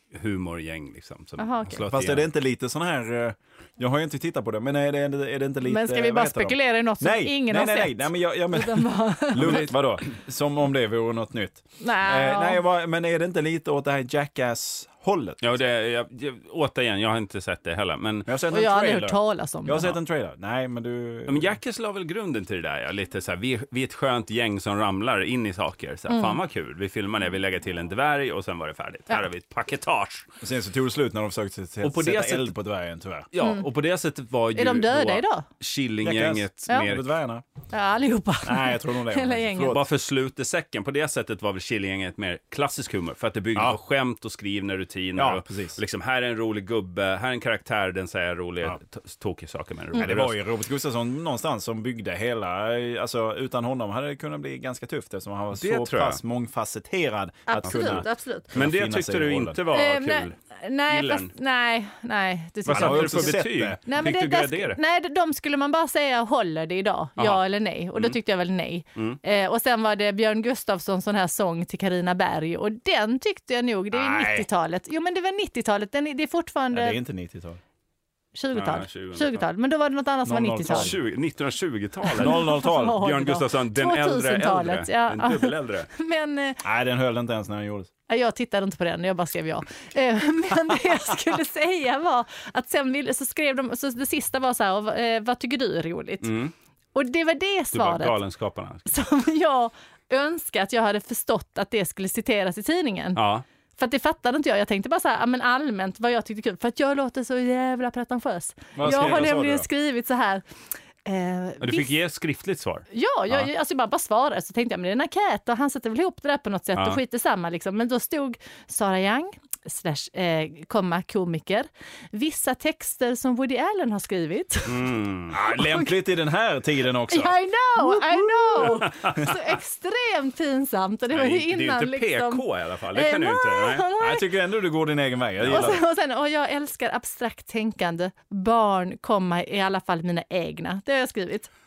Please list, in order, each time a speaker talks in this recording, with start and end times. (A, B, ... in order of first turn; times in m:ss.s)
0:00.1-0:02.3 A
0:01.4-0:01.8 B
0:01.8-0:15.6 C
0:05.6-0:09.7 B
0:09.4-0:09.7 A
0:11.8-0:12.6 B
0:15.4-0:18.3 A
0:18.3-0:21.6 C
0:18.5-0:20.0 B
0:21.3-0:30.3 A
0:26.1-0:26.4 B
0:30.4-0:33.3 C
0:31.8-0:32.5 A
0:33.3-0:37.0 A
0:33.4-0:33.6 B
0:34.5-0:35.4 B
0:36.0-0:37.4 C
0:37.7-0:39.8 B
0:38.4-0:39.8 C
0:39.6-0:50.4 A
0:45.2-0:45.8 C
0:50.0-0:59.6 C
0:55.6-0:56.2 A
0:57.5-0:58.5 B
0:57.6-1:00.4 A
0:59.7-1:17.0 B
1:00.9-1:01.3 A
1:02.6-1:04.8 A
1:02.7-1:03.8 C
1:13.9-1:14.5 C
1:16.7-1:17.6 C
1:18.3-1:20.9 B
1:18.5-1:19.4 A
1:20.2-1:20.9 C
1:20.7-1:25.9 A
1:22.1-1:26.6 B
1:22.2-1:23.0 C
1:26.6-1:27.9 C
1:28.1-1:36.3 B
1:36.2-1:36.5 A
1:36.9-1:38.2 B
1:37.7-1:38.9 A
1:38.9-1:43.2 B
1:43.1-1:43.4 A
1:43.8-1:50.4 B
1:48.8-1:49.7 C
1:51.0-1:51.9 B
1:51.6-1:53.5 A
1:52.9-2:04.9 B
1:56.7-1:57.0 A
2:04.7-2:05.4 A
2:05.3-2:08.6 C
2:05.4-2:05.9 B
2:07.1-2:14.3 B
2:08.8-2:09.0 A
2:11.1-2:13.9 A
2:14.0-2:15.8 C
2:15.4-2:15.8 A
2:15.4-2:21.5 B